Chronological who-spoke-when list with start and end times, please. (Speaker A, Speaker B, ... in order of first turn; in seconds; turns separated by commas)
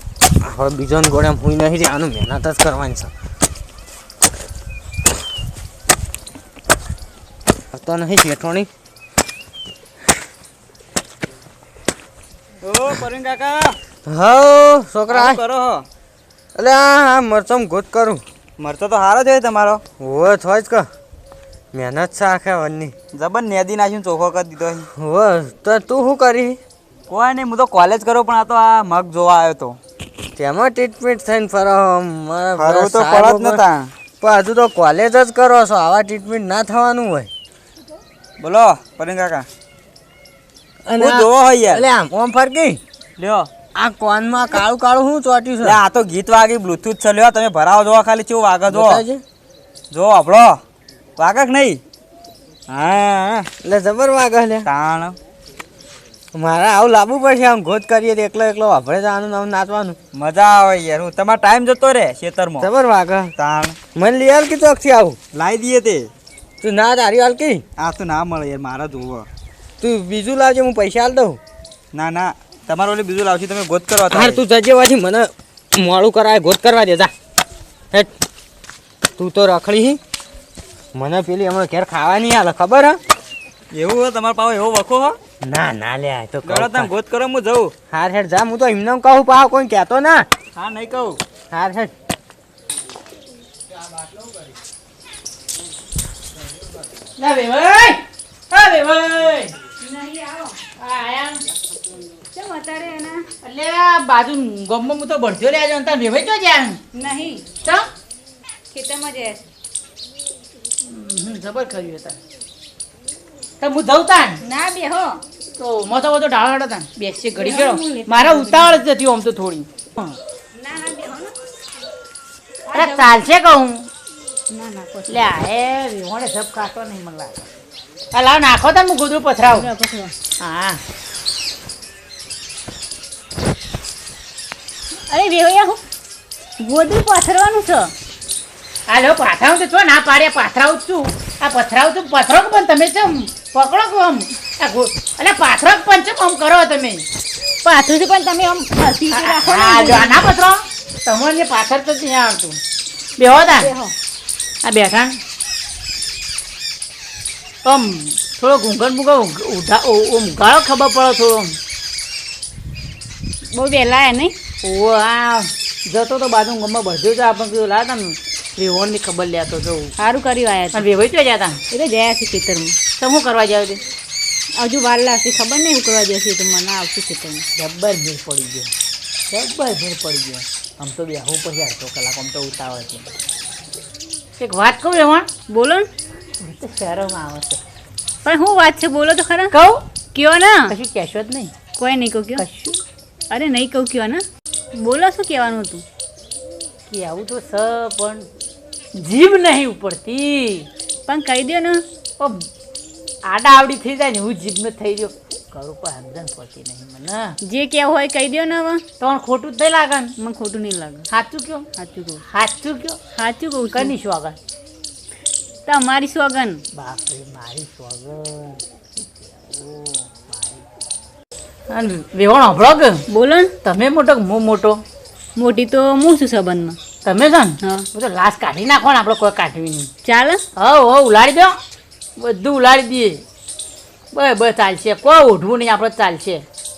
Speaker A: 0.4-3.1, Speaker A: 7.7-8.7, Speaker B: 12.6-13.8, Speaker A: 14.1-15.4, Speaker B: 15.1-15.8, Speaker A: 16.6-18.2, Speaker B: 18.6-19.8, Speaker A: 20.0-20.8, Speaker A: 21.7-22.9, Speaker B: 23.1-24.9, Speaker A: 24.9-26.6, Speaker B: 27.1-29.8, Speaker A: 30.4-33.6, Speaker B: 32.5-33.9, Speaker A: 34.2-37.3, Speaker B: 38.4-39.5, Speaker A: 40.9-42.8, Speaker B: 41.0-41.8, Speaker B: 43.2-43.5, Speaker A: 43.8-45.8, Speaker B: 45.6-49.0, Speaker A: 48.7-49.2, Speaker B: 49.9-50.6, Speaker B: 51.2-51.8, Speaker B: 52.7-53.5, Speaker A: 53.6-54.7, Speaker B: 54.6-55.2, Speaker A: 56.3-60.0, Speaker B: 60.1-62.7, Speaker A: 62.6-63.3, Speaker B: 63.4-63.8, Speaker A: 63.9-65.2, Speaker B: 65.3-66.1, Speaker A: 66.6-67.6, Speaker B: 67.8-69.3, Speaker A: 69.8-71.4, Speaker B: 71.9-74.4, Speaker A: 74.1-77.1, Speaker A: 79.2-80.0, Speaker A: 80.9-83.0, Speaker B: 83.7-85.2, Speaker A: 85.4-86.9, Speaker B: 86.4-87.7, Speaker A: 87.9-90.2, Speaker B: 90.5-91.2, Speaker A: 91.5-91.9, Speaker C: 97.2-99.5, Speaker D: 99.8-100.6, Speaker C: 100.8-101.4, Speaker D: 102.3-103.2, Speaker C: 103.4-106.8, Speaker D: 106.9-107.5, Speaker D: 108.7-109.4, Speaker C: 110.8-112.2, Speaker C: 113.6-114.4, Speaker D: 114.4-115.2, Speaker C: 115.6-120.2, Speaker D: 117.3-118.8, Speaker D: 120.5-121.3, Speaker D: 122.7-123.1, Speaker C: 122.7-123.9, Speaker D: 124.5-125.3, Speaker C: 125.1-127.5, Speaker C: 128.1-129.7, Speaker D: 129.5-130.1, Speaker C: 130.4-130.8, Speaker D: 135.1-135.8, Speaker D: 136.6-137.9, Speaker C: 138.9-147.0, Speaker D: 147.6-150.2, Speaker C: 149.1-152.6, Speaker C: 153.2-153.7, Speaker D: 153.3-153.9, Speaker C: 154.6-155.2, Speaker C: 157.6-161.6, Speaker D: 163.5-164.3, Speaker C: 164.6-169.9, Speaker D: 170.0-170.8, Speaker C: 170.7-171.6, Speaker D: 171.7-172.8, Speaker C: 173.0-173.8, Speaker D: 174.6-177.4, Speaker C: 177.6-178.7, Speaker C: 179.3-183.1, Speaker C: 184.4-185.3, Speaker D: 185.5-185.9, Speaker C: 186.4-187.6, Speaker D: 188.2-189.5, Speaker C: 189.5-189.8, Speaker D: 190.1-190.7, Speaker C: 190.7-191.5, Speaker D: 191.8-192.4, Speaker C: 192.3-192.8, Speaker D: 193.3-194.2, Speaker D: 194.8-195.8, Speaker C: 196.9-198.3, Speaker C: 198.9-200.7, Speaker D: 201.1-201.8, Speaker C: 202.2-202.4, Speaker C: 203.2-207.3, Speaker D: 207.4-208.8, Speaker C: 209.0-210.1, Speaker D: 210.2-211.1, Speaker C: 211.1-211.7, Speaker D: 211.8-212.2, Speaker C: 212.2-213.0, Speaker D: 213.1-213.9, Speaker C: 213.7-214.4, Speaker D: 215.7-216.6, Speaker C: 216.7-220.7, Speaker C: 221.7-223.0, Speaker D: 223.1-223.5, Speaker C: 223.6-224.8, Speaker D: 225.3-226.8, Speaker C: 227.0-229.9, Speaker D: 230.0-230.4, Speaker C: 230.6-231.6, Speaker C: 232.2-233.2, Speaker C: 234.1-236.4